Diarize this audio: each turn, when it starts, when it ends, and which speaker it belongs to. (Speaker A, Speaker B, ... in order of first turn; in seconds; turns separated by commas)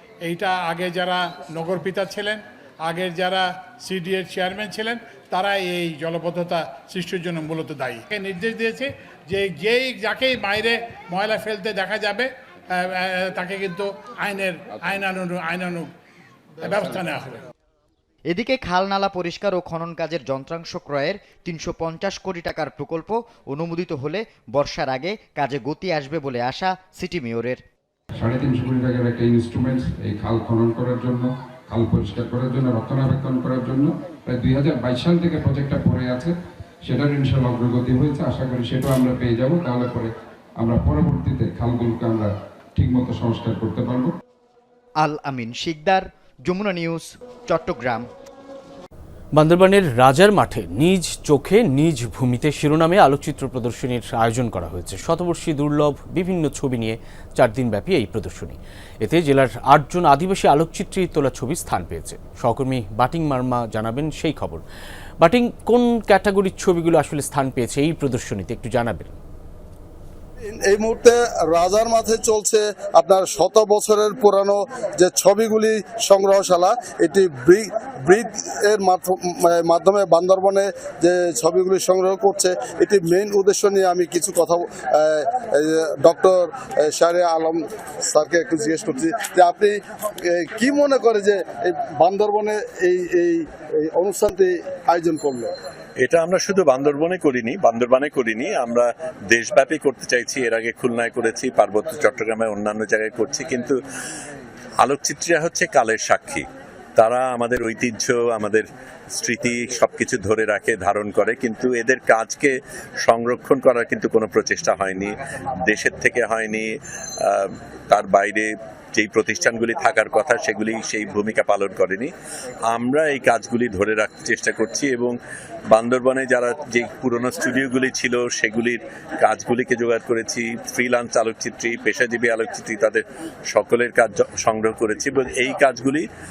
Speaker A: 0.2-15.9, Speaker A: 16.6-17.4, Speaker B: 18.3-27.6, Speaker C: 28.2-36.3, Speaker C: 36.9-40.1, Speaker D: 38.8-39.1, Speaker C: 40.7-42.3, Speaker C: 42.8-44.1, Speaker B: 45.0-48.1, Speaker E: 49.4-64.6, Speaker E: 65.2-69.2, Speaker F: 70.5-89.8, Speaker F: 90.3-95.5, Speaker D: 96.0-103.8, Speaker D: 104.8-106.4, Speaker D: 107.0-108.7, Speaker D: 109.2-112.5, Speaker D: 113.0-115.1, Speaker D: 115.7-116.7, Speaker D: 117.3-122.1, Speaker D: 122.7-125.2, Speaker D: 125.7-133.0, Speaker D: 133.5-136.0